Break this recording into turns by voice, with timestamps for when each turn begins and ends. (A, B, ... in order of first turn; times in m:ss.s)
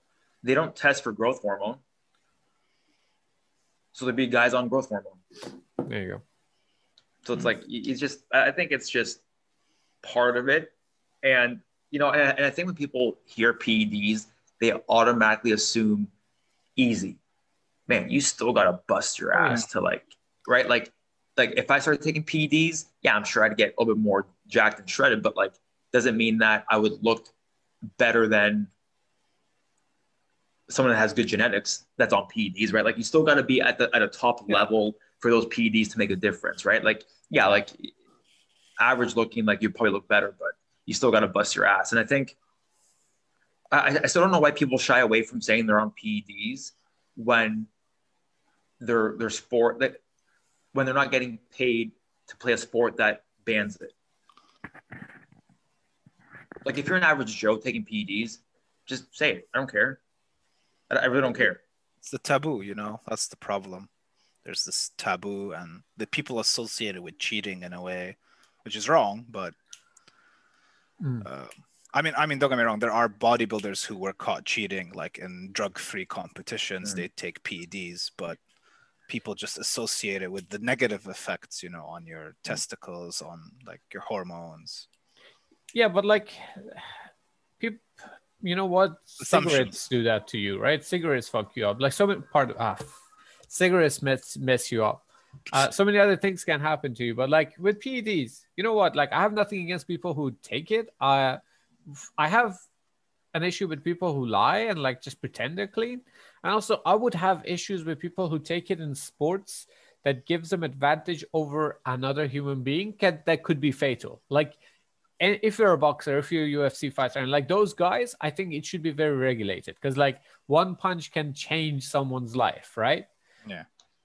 0:00.4-0:01.8 A
0:03.9-0:05.2 A
0:05.8-0:06.2 B
0:07.2-0:09.2 A
0:10.0-0:16.1 A
0:16.8-0:17.2 A
0:17.9-0:27.3 A
0:19.3-0:19.6 B
0:27.8-0:28.7 A
0:30.7-0:37.9 A
0:38.8-0:42.4 A
0:43.7-0:47.7 A
0:48.8-0:50.0 A
0:50.7-0:53.9 A
0:56.6-1:00.0 A
1:00.9-1:01.6 A
1:02.0-1:03.9 C
1:04.4-1:09.5 C
1:11.0-1:11.2 B
1:11.2-1:18.4 C
1:19.1-1:24.9 C
1:25.7-1:26.9 B
1:27.6-1:41.4 B
1:29.2-1:29.8 C
1:42.2-1:42.6 B
1:43.3-1:54.6 B
1:55.2-2:03.1 B